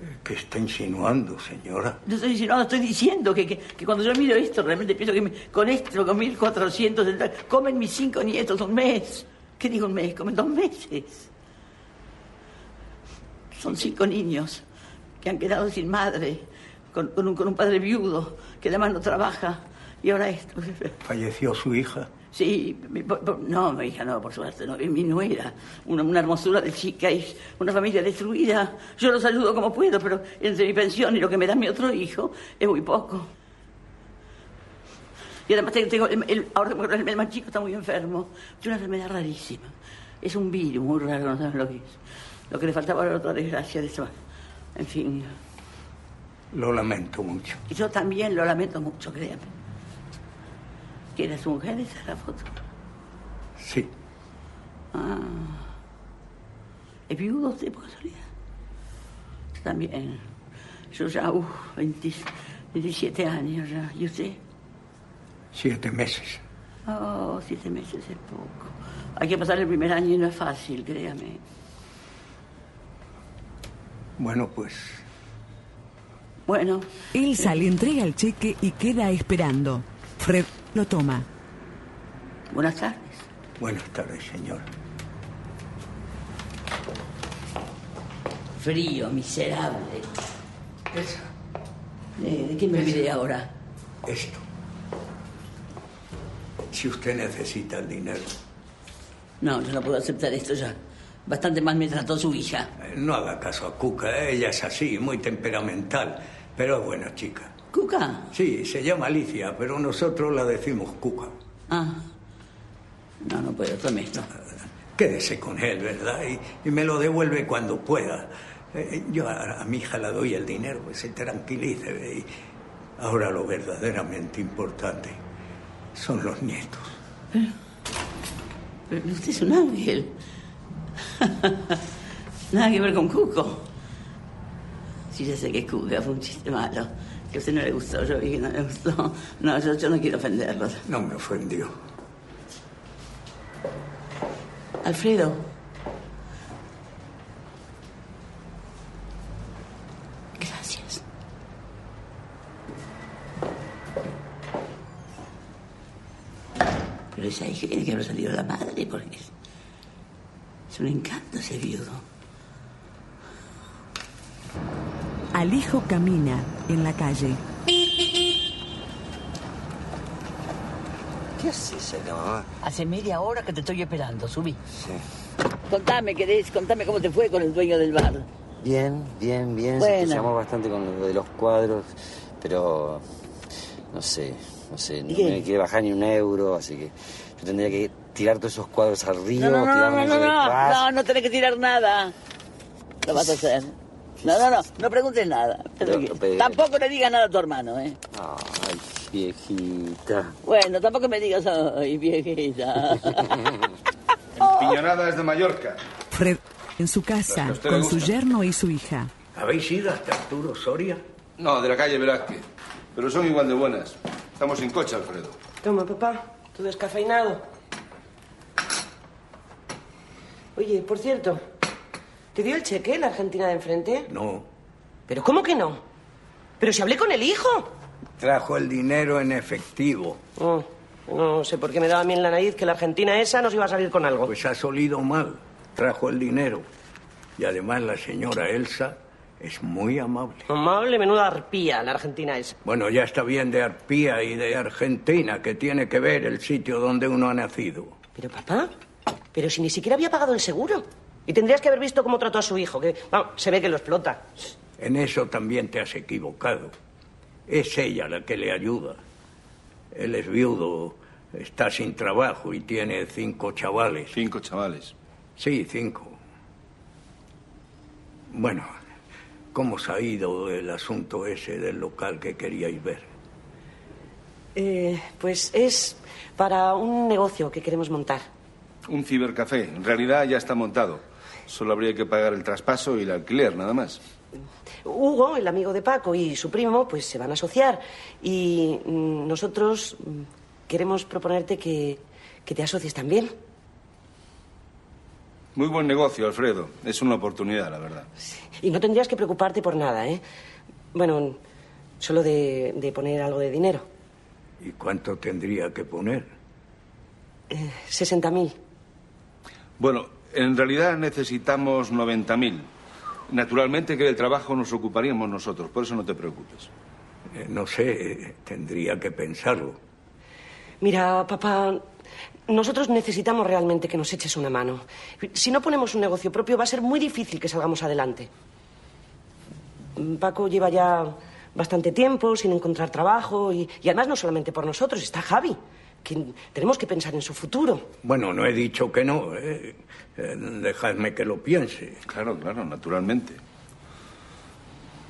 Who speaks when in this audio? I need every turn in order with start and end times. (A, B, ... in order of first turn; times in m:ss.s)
0:00.2-0:02.0 A
0:02.0-0:11.3 B
0:13.5-0:14.6 B
0:15.2-0:21.0 B
0:21.0-0:22.1 A
0:22.3-0:33.3 B
0:35.5-0:44.1 B
0:44.8-0:45.4 B
0:46.5-0:47.6 A
0:47.7-0:49.5 B
0:51.1-0:52.6 B
0:53.6-0:53.9 A
0:54.9-0:55.7 B
0:57.1-0:58.3 B
0:59.5-1:00.2 B
1:00.9-1:04.4 B
1:05.5-1:06.4 A
1:06.9-1:11.4 B
1:14.2-1:15.0 A
1:16.5-1:16.9 B
1:17.1-1:21.3 C
1:22.5-1:23.3 B
1:23.6-1:24.7 A
1:28.6-1:30.1 B
1:30.9-1:31.3 A
1:32.2-1:33.5 B
1:34.0-1:34.4 A
1:36.7-1:38.4 A
1:39.4-1:42.7 B
1:42.8-1:47.5 A
1:47.7-1:48.3 B
1:48.3-1:51.3 A
1:51.7-1:52.0 B
1:53.2-1:54.3 B
1:55.0-2:02.3 A
2:03.0-2:05.2 A
2:06.0-2:07.0 A
2:08.9-2:10.1 B
2:11.2-2:11.8 B
2:12.5-2:13.7 B
2:15.1-2:20.8 B
2:20.9-2:21.7 A
2:24.8-2:25.5 B
2:30.4-2:31.0 B
2:37.1-2:39.3 B
2:40.7-2:42.0 B
2:45.3-2:47.4 C
2:51.4-2:52.5 D
2:52.6-2:54.6 B
2:54.8-2:55.0 D
2:55.7-2:58.3 B
2:58.6-3:03.0 D
2:59.8-3:00.3 B
3:03.9-3:10.9 D
3:05.1-3:05.4 B
3:09.4-3:12.1 B
3:13.0-3:18.0 B
3:14.2-3:14.5 D
3:15.8-3:16.6 D
3:18.1-3:20.4 D
3:20.4-3:23.3 B
3:24.4-3:25.8 E
3:26.1-3:29.1 C
3:27.3-3:28.1 E
3:29.4-3:31.0 A
3:31.4-3:35.4 E
3:35.6-3:37.4 F
3:40.6-3:41.4 F
3:42.3-3:44.1 F
3:44.1-3:44.5 A
3:45.1-3:45.8 F
3:46.6-3:47.7 F
3:48.2-3:50.2 A
3:50.4-3:54.3 F
3:54.3-3:56.6 A
3:57.4-4:00.5 A
4:00.5-4:02.6 F
4:02.6-4:08.0 A
4:08.2-4:08.7 F
4:09.3-4:14.3 F
4:14.8-4:16.7 A
4:17.5-4:19.0 A
4:19.9-4:24.2 A
4:24.1-4:24.9 E
4:25.4-4:26.2 A
4:28.3-4:28.7 A
4:29.5-4:33.1 A
4:34.6-4:38.3 F
4:38.9-4:44.0 E
4:44.8-4:53.3 F
4:55.6-4:58.1 E
4:58.6-5:00.2 F
5:00.9-5:01.4 F
5:02.0-5:03.9 F
5:04.6-5:06.3 A
5:07.5-5:08.5 F
5:09.8-5:12.7 E
5:13.3-5:16.7 E
5:17.3-5:19.8 A
5:20.8-5:21.8 F
5:22.5-5:28.3 F
5:30.0-5:37.9 F
5:38.0-5:42.0 A
5:42.1-5:43.4 E